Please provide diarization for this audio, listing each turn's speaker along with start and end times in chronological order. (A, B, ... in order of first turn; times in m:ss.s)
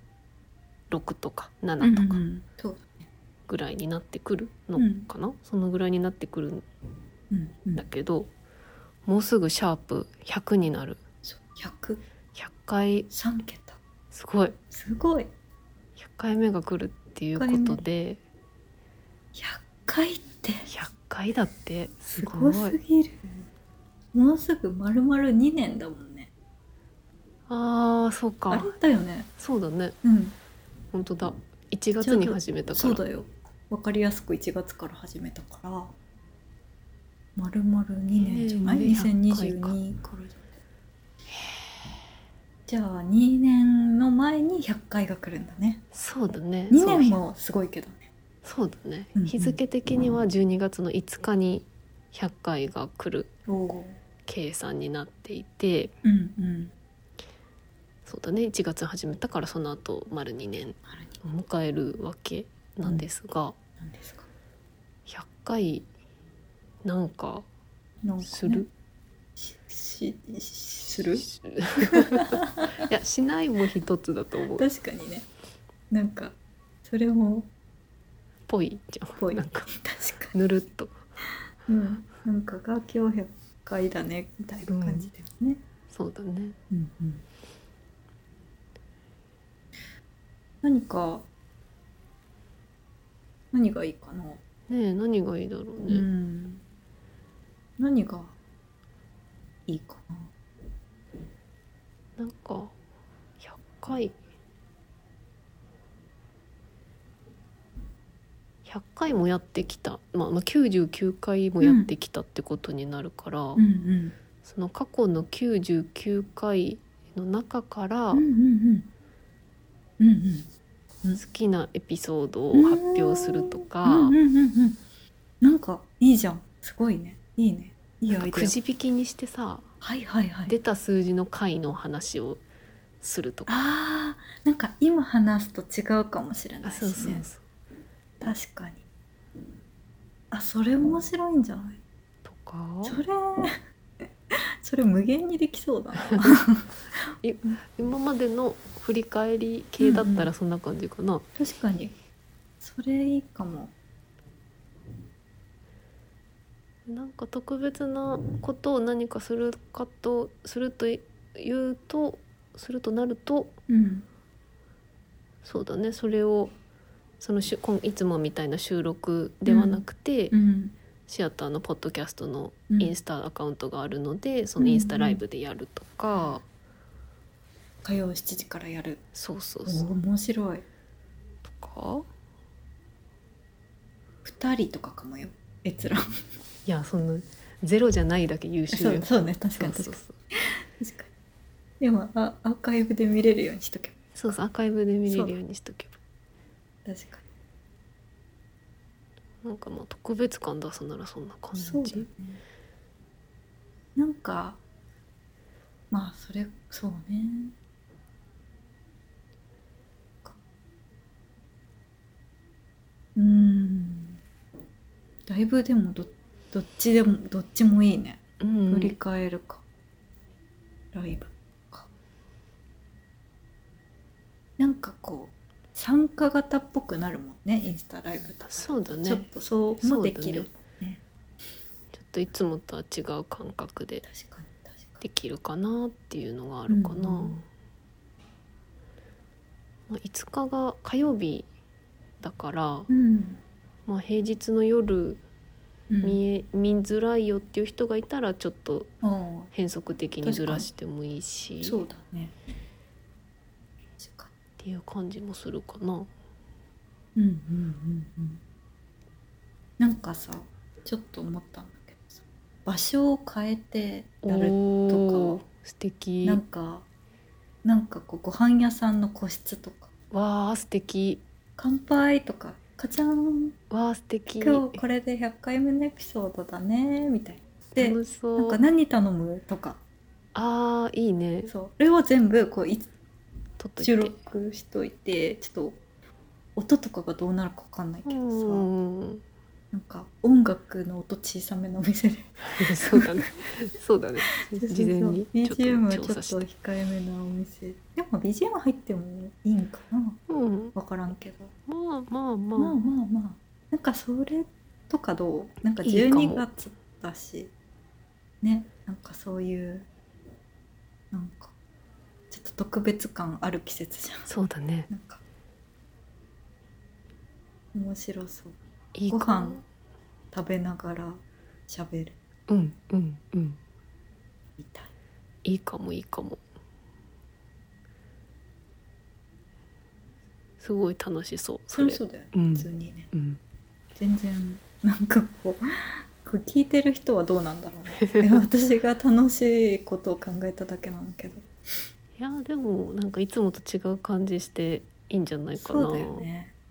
0:00.9-0:02.2 A
0:01.8-0:03.1 B
0:03.5-0:06.6 A
0:04.8-0:05.1 B
0:07.3-0:07.8 B
0:07.8-0:08.3 A
0:09.1-0:11.0 A
0:11.2-0:12.0 B
0:12.4-0:13.1 A
0:13.1-0:13.8 B
0:14.1-0:14.6 A
0:14.7-0:15.3 B
0:16.0-0:18.2 A
0:17.4-0:17.9 B
0:19.3-0:20.7 B
0:20.7-0:22.8 A
0:22.2-0:23.5 B
0:24.1-0:26.3 B
0:27.5-0:28.7 A
0:28.5-0:29.3 B
0:29.4-0:30.0 A
0:30.0-0:30.4 B
0:30.9-0:33.0 A
0:32.0-0:35.9 B
0:37.4-0:40.5 B
0:38.2-0:39.8 A
0:42.7-0:45.8 B
0:45.9-0:47.2 A
0:46.7-0:48.1 B
0:48.4-0:53.3 A
0:49.2-0:49.6 B
0:53.5-0:54.0 B
0:54.3-0:56.0 A
0:56.0-0:56.7 B
0:58.1-1:03.6 A
1:00.9-1:01.2 B
1:03.8-1:04.3 B
1:05.1-1:05.9 A
1:06.8-1:07.5 A
1:08.0-1:08.7 B
1:08.2-1:08.7 A
1:09.4-1:11.3 B
1:11.3-1:14.6 A
1:11.9-1:12.7 B
1:14.5-1:15.3 B
1:15.9-1:17.5 B
1:18.5-1:19.7 A
1:19.2-1:20.4 B
1:20.3-1:21.0 A
1:21.7-1:25.6 B
1:24.7-1:25.1 A
1:25.9-1:26.6 A
1:26.7-1:27.2 B
1:30.6-1:31.3 B
1:33.5-1:34.4 B
1:34.7-1:36.1 A
1:35.9-1:36.6 B
1:37.8-1:38.3 B
1:39.7-1:40.3 B
1:42.2-1:42.8 A
1:43.4-1:44.2 A
1:48.6-1:53.6 A
1:51.6-1:51.9 B
1:53.6-1:54.2 B
1:54.4-1:58.3 A
1:58.1-1:58.9 B
2:00.0-2:00.5 B
2:01.2-2:04.2 A
2:02.5-2:04.8 B
2:05.4-2:08.6 B
2:08.1-2:09.7 A
2:09.8-2:10.6 B
2:10.5-2:12.4 A
2:13.0-2:13.5 A
2:13.5-2:17.3 B
2:16.6-2:17.4 A
2:18.2-2:18.8 B
2:20.3-2:21.8 B
2:22.2-2:23.0 A
2:22.8-2:23.6 B
2:24.6-2:26.7 B
2:26.0-2:26.4 A
2:27.2-2:31.2 A
2:29.8-2:30.3 B
2:31.4-2:32.0 B
2:32.6-2:33.7 B
2:36.9-2:43.6 A
2:43.7-2:44.1 B
2:45.4-2:46.5 A
2:47.2-2:50.4 A
2:49.5-2:50.8 B
2:51.1-2:56.4 A
2:52.7-2:53.0 B
2:54.6-2:55.2 B
2:56.1-2:56.4 B
2:57.8-2:59.0 B
2:59.2-2:59.9 A
2:59.7-3:00.6 B
3:01.5-3:02.1 A
3:04.2-3:06.0 B
3:06.7-3:10.2 A
3:08.7-3:11.1 B
3:11.8-3:14.4 B
3:14.2-3:16.0 A
3:15.1-3:15.4 B
3:16.8-3:17.2 B
3:19.4-3:22.1 A
3:21.6-3:22.4 B
3:24.0-3:24.6 B
3:25.9-3:27.5 B
3:33.2-3:34.2 B
3:35.3-3:39.6 B
3:38.4-3:39.0 A
3:40.9-3:41.9 B
3:44.6-3:51.0 B
3:48.4-3:49.3 A
3:49.8-3:50.5 A
3:51.9-3:54.0 A
3:54.0-3:55.0 B
3:55.0-3:57.4 A
3:56.7-3:57.4 B
3:59.9-4:01.5 A
4:02.2-4:02.9 A
4:02.9-4:03.4 B
4:03.9-4:05.2 A
4:05.9-4:06.2 B
4:06.0-4:08.9 A
4:09.0-4:09.5 B
4:09.5-4:11.8 A
4:10.2-4:10.7 B
4:11.6-4:12.3 B
4:14.0-4:14.3 B
4:14.6-4:16.1 A
4:17.2-4:18.4 B
4:19.8-4:25.4 B
4:24.2-4:26.4 A
4:26.2-4:26.8 B
4:27.6-4:29.9 B
4:30.1-4:31.2 A
4:31.6-4:33.6 B
4:33.7-4:34.8 A
4:34.4-4:39.8 B
4:37.8-4:38.6 A
4:40.4-4:41.5 A
4:41.5-4:42.9 B
4:43.6-4:44.2 A
4:43.8-4:45.8 B
4:46.6-4:48.7 B
4:48.1-4:49.2 A
4:49.7-4:53.3 B
4:52.5-4:56.4 A
4:54.5-5:00.2 B
5:00.3-5:00.7 A
5:00.8-5:01.5 B
5:01.7-5:02.8 A
5:02.6-5:07.5 B
5:05.8-5:06.5 A
5:08.4-5:09.9 B
5:11.1-5:11.5 B
5:12.3-5:14.3 B
5:14.3-5:14.9 A
5:14.9-5:15.2 B
5:17.7-5:18.6 B
5:18.9-5:19.6 A
5:19.1-5:19.6 B
5:20.3-5:22.2 B
5:22.5-5:23.6 A
5:24.6-5:24.9 B
5:25.4-5:26.4 A
5:30.6-5:33.4 A
5:31.7-5:33.1 B
5:34.0-5:41.5 B
5:38.1-5:38.4 A
5:42.2-5:46.3 A
5:45.6-5:46.5 B